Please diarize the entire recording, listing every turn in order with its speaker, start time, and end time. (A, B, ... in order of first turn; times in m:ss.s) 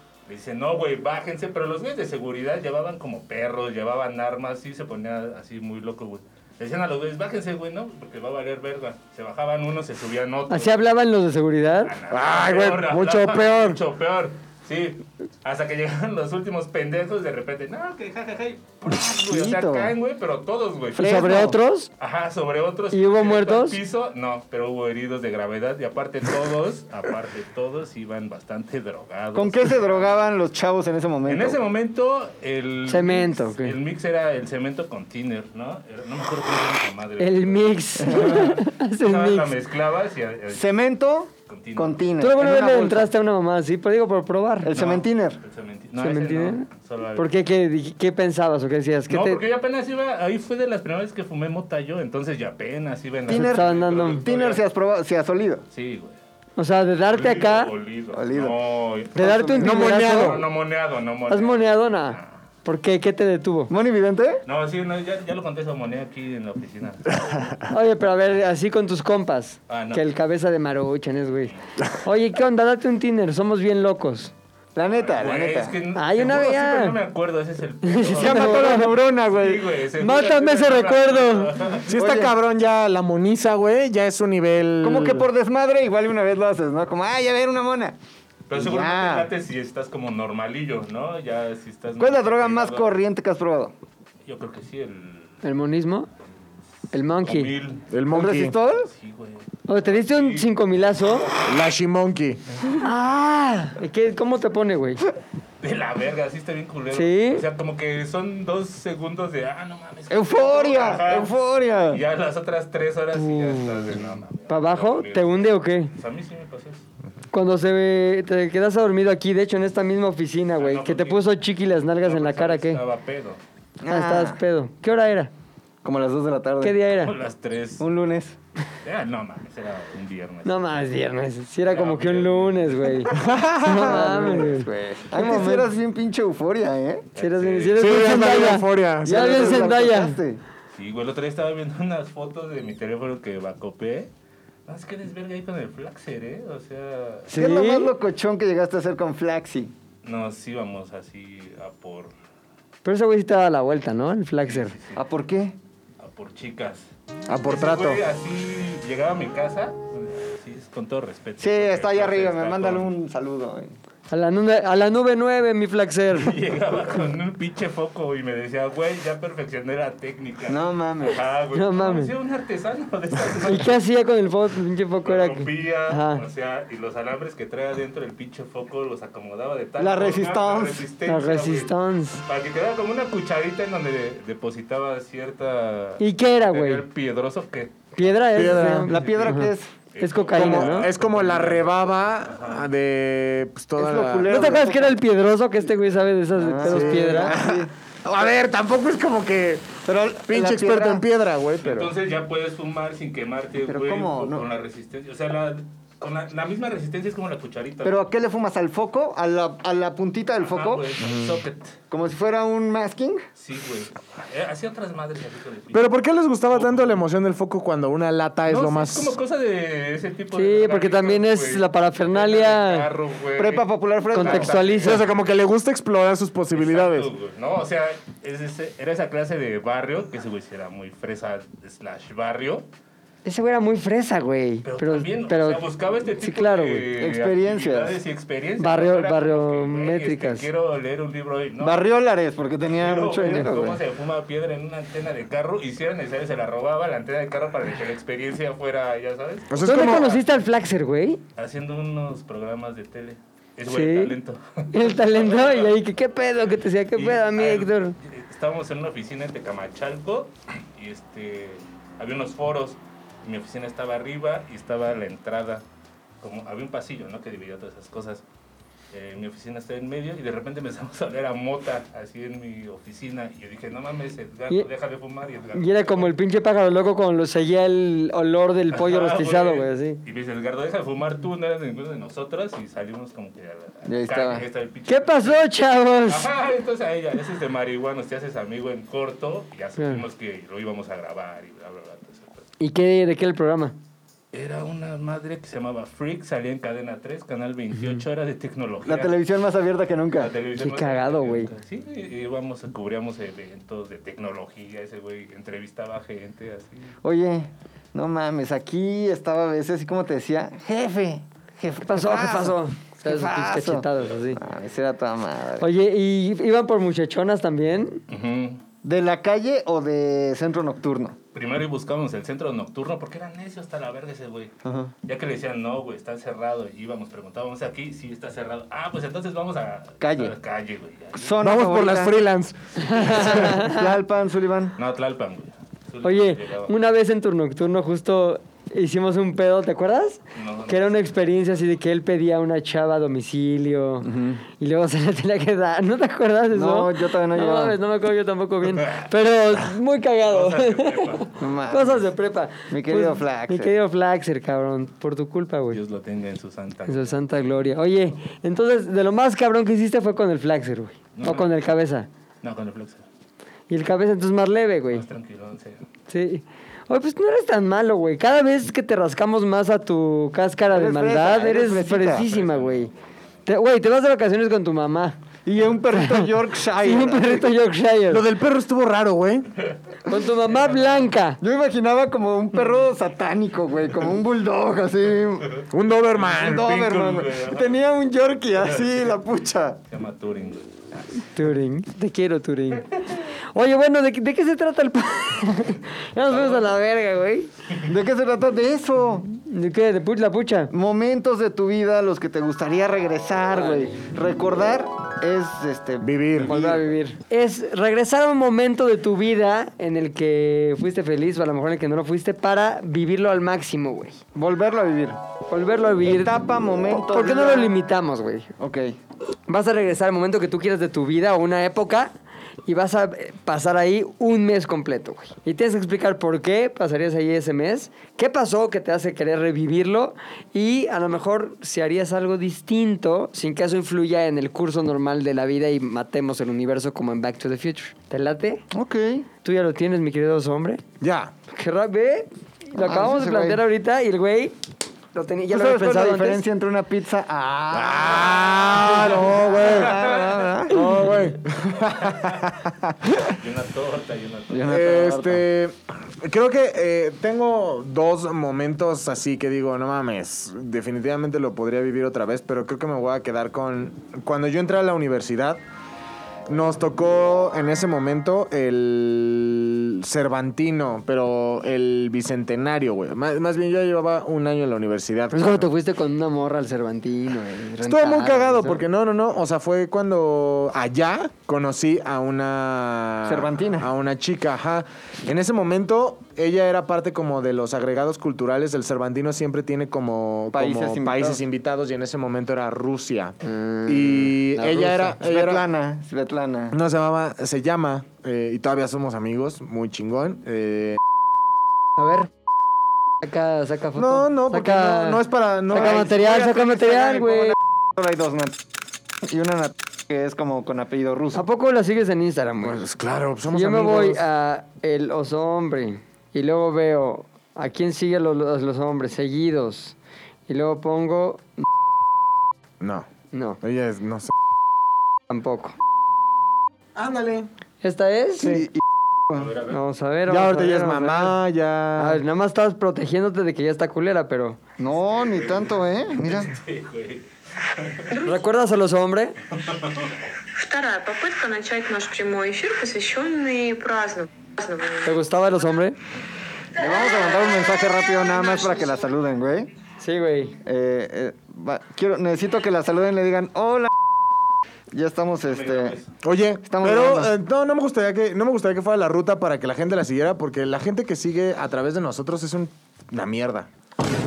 0:00.3-0:10.9 A
0:10.5-0:11.9 B
0:11.8-0:21.3 A
0:12.1-0:13.8 C
0:19.1-0:19.9 D
0:21.0-0:21.6 D
0:21.0-0:21.9 B
0:22.0-0:30.3 A
0:22.9-0:23.8 B
0:29.3-0:31.6 D
0:31.3-0:40.7 A
0:32.9-0:33.8 B
0:37.2-0:39.5 B
0:38.0-0:38.5 D
0:40.5-0:43.1 D
0:41.5-0:42.1 A
0:42.2-0:44.7 B
0:44.6-0:45.4 D
0:44.7-0:47.3 A
0:46.0-0:49.4 B
0:49.1-0:54.6 A
0:53.3-0:55.6 D
0:53.3-0:54.2 B
0:55.7-0:56.2 A
0:56.6-0:57.7 B
0:57.1-0:59.3 A
0:58.1-0:58.6 D
0:59.1-0:59.9 D
0:59.2-1:00.4 B
0:59.6-1:00.5 C
0:59.9-1:02.3 A
1:01.3-1:03.7 B
1:03.7-1:04.4 D
1:04.5-1:07.6 A
1:07.7-1:14.3 B
1:09.7-1:10.0 A
1:14.8-1:15.8 D
1:15.0-1:22.0 A
1:15.9-1:17.0 B
1:17.8-1:18.9 B
1:18.1-1:19.7 D
1:20.0-1:21.7 B
1:21.9-1:25.3 C
1:22.0-1:22.3 D
1:24.8-1:28.0 D
1:28.5-1:33.0 A
1:28.5-1:29.3 D
1:32.0-1:33.7 D
1:34.2-1:35.4 A
1:35.4-1:36.1 B
1:36.9-1:37.5 B
1:37.2-1:37.9 A
1:37.9-1:38.6 C
1:38.1-1:38.9 D
1:38.9-1:41.5 A
1:39.7-1:41.3 B
1:41.4-1:42.4 C
1:42.8-1:45.0 B
1:45.6-1:51.3 A
1:46.9-1:47.4 B
1:50.1-1:52.0 D
1:51.9-1:56.8 A
1:53.1-1:54.0 B
1:54.5-1:55.9 B
1:57.3-2:02.8 B
2:00.6-2:01.3 A
2:02.0-2:03.4 A
2:03.8-2:04.4 D
2:03.9-2:05.3 B
2:05.8-2:06.8 D
2:06.6-2:07.2 B
2:06.9-2:07.8 A
2:07.8-2:08.4 D
2:08.8-2:10.9 A
2:10.4-2:15.7 B
2:11.7-2:13.2 A
2:13.1-2:14.3 C
2:13.7-2:17.1 D
2:17.2-2:18.2 A
2:17.2-2:20.2 B
2:17.8-2:19.7 C
2:19.0-2:20.4 D
2:20.7-2:24.1 A
2:24.7-2:27.3 A
2:27.3-2:29.7 D
2:27.3-2:27.9 B
2:30.0-2:32.1 A
2:32.8-2:34.8 B
2:34.4-2:35.0 A
2:35.0-2:35.6 D
2:36.0-2:36.9 A
2:37.3-2:38.0 C
2:37.5-2:42.9 A
2:41.4-2:43.7 D
2:44.1-2:46.4 B
2:46.1-2:53.8 A
2:50.5-2:51.2 D
2:51.5-2:52.1 B
2:53.4-2:56.2 B
2:55.0-3:01.7 A
2:59.8-3:00.8 D
3:01.1-3:02.2 B
3:02.2-3:11.7 A
3:06.0-3:06.8 B
3:08.0-3:10.9 B
3:08.4-3:09.0 C
3:08.9-3:09.7 D
3:10.3-3:14.6 C
3:12.3-3:12.7 A
3:13.8-3:15.0 D
3:14.3-3:17.4 B
3:16.4-3:17.7 D
3:16.6-3:21.9 C
3:19.8-3:21.0 D
3:21.6-3:28.0 A
3:23.7-3:24.5 D
3:27.8-3:31.2 D
3:30.4-3:31.8 A
3:31.9-3:33.2 D
3:33.4-3:35.9 A
3:35.7-3:39.2 C
3:36.5-3:37.0 A
3:38.5-3:45.2 A
3:40.3-3:42.9 B
3:43.4-3:44.7 D
3:44.1-3:45.0 B
3:44.8-3:47.1 C
3:46.5-3:52.7 A
3:53.2-3:55.7 B
3:54.6-4:01.9 A
3:56.2-3:56.9 B
3:56.9-3:58.0 D
3:58.6-4:00.5 B
4:01.6-4:03.8 D
4:02.6-4:10.2 A
4:09.5-4:10.2 C
4:09.6-4:11.2 B
4:11.4-4:15.7 A
4:13.7-4:14.2 B
4:14.7-4:18.0 B
4:17.0-4:25.6 A
4:26.2-4:28.2 A
4:28.9-4:36.1 A
4:35.5-4:40.0 B
4:38.7-4:45.4 A
4:43.9-4:44.4 D
4:44.9-4:46.3 B
4:46.1-4:52.4 A
4:49.8-4:50.0 B
4:52.6-4:53.8 B
4:54.3-4:59.2 A
4:58.8-5:00.3 D
5:00.1-5:06.9 A
5:00.6-5:01.5 B
5:07.0-5:15.7 D
5:11.8-5:14.4 B
5:15.6-5:18.0 B
5:18.1-5:18.6 A
5:18.8-5:21.2 D
5:21.3-5:24.5 A
5:24.6-5:24.9 D
5:25.1-5:31.4 A
5:30.0-5:30.3 D
5:31.1-5:32.2 D
5:31.4-5:33.4 C
5:32.8-5:33.9 B
5:33.1-5:34.8 D
5:34.8-5:36.7 A
5:36.0-5:55.8 B
5:40.4-5:40.9 A
5:44.0-5:44.4 D
5:46.5-5:47.8 D
5:50.3-5:51.6 A
5:51.4-5:52.1 D
5:52.7-5:53.8 D
5:55.7-5:57.7 A
5:56.9-6:02.1 B
6:01.2-6:01.5 A
6:02.4-6:03.0 A
6:03.7-6:05.1 B
6:04.9-6:05.8 A
6:06.1-6:12.9 B
6:10.7-6:12.3 D
6:12.2-6:12.9 A
6:13.5-6:15.2 B
6:15.4-6:17.5 D
6:15.9-6:18.2 B
6:18.1-6:19.5 C
6:20.1-6:21.4 B
6:20.5-6:21.0 A
6:21.4-6:25.6 D
6:25.7-6:26.7 C
6:26.2-6:27.8 A
6:26.2-6:29.8 D
6:28.6-6:28.9 A
6:29.9-6:31.1 A
6:31.3-6:32.9 B
6:33.5-6:37.5 B
6:36.3-6:36.7 A
6:37.8-6:39.3 D
6:39.4-6:40.7 B
6:40.7-6:46.8 D
6:43.5-6:43.9 B
6:46.0-6:46.6 C
6:46.4-6:54.2 B
6:54.3-6:55.2 D
6:55.5-6:58.5 B
6:56.1-6:57.8 D
6:58.6-6:59.0 D
6:59.5-7:02.1 B
7:02.7-7:18.6 B
7:18.7-7:19.3 D
7:19.4-7:20.8 B
7:21.0-7:21.3 C
7:21.5-7:24.6 B
7:22.8-7:23.6 D
7:25.1-7:26.4 B
7:25.5-7:30.9 D
7:27.7-7:30.0 C
7:29.6-7:30.5 A
7:30.7-7:33.2 C
7:31.9-7:32.4 A
7:33.3-7:34.8 A
7:34.5-7:35.4 D
7:34.7-7:45.6 C
7:46.5-7:55.7 C
7:55.3-7:58.8 B
7:57.8-8:15.6 C
8:03.3-8:03.9 D
8:10.5-8:11.4 D
8:13.4-8:14.3 B
8:14.6-8:16.8 D
8:16.7-8:21.0 C
8:22.0-8:22.3 B
8:23.2-8:27.6 B
8:24.0-8:26.2 C
8:25.7-8:28.6 D
8:29.2-8:31.5 D
8:31.3-8:32.9 B
8:32.6-8:34.2 C
8:33.5-8:40.0 B
8:40.5-8:41.6 B
8:42.8-8:43.1 C
8:43.3-8:43.6 B
8:43.6-8:44.3 C
8:45.3-8:45.8 B
8:47.0-8:47.5 C
8:47.8-8:48.6 B
8:48.4-8:48.7 C
8:48.4-8:49.5 D
8:49.4-8:49.8 A
8:49.7-8:51.4 B
8:50.3-8:52.2 C
8:52.0-8:54.6 B
8:54.8-8:56.5 D
8:55.2-8:58.1 A
8:58.1-8:58.4 E
8:58.2-8:59.4 B
8:59.6-9:00.1 A
9:00.6-9:05.1 E
9:05.0-9:06.0 B
9:06.8-9:09.7 D
9:08.2-9:08.8 E
9:10.0-9:10.6 B
9:10.6-9:13.9 D
9:14.9-9:16.0 D
9:15.5-9:16.1 A
9:16.2-9:23.7 C
9:16.7-9:17.3 D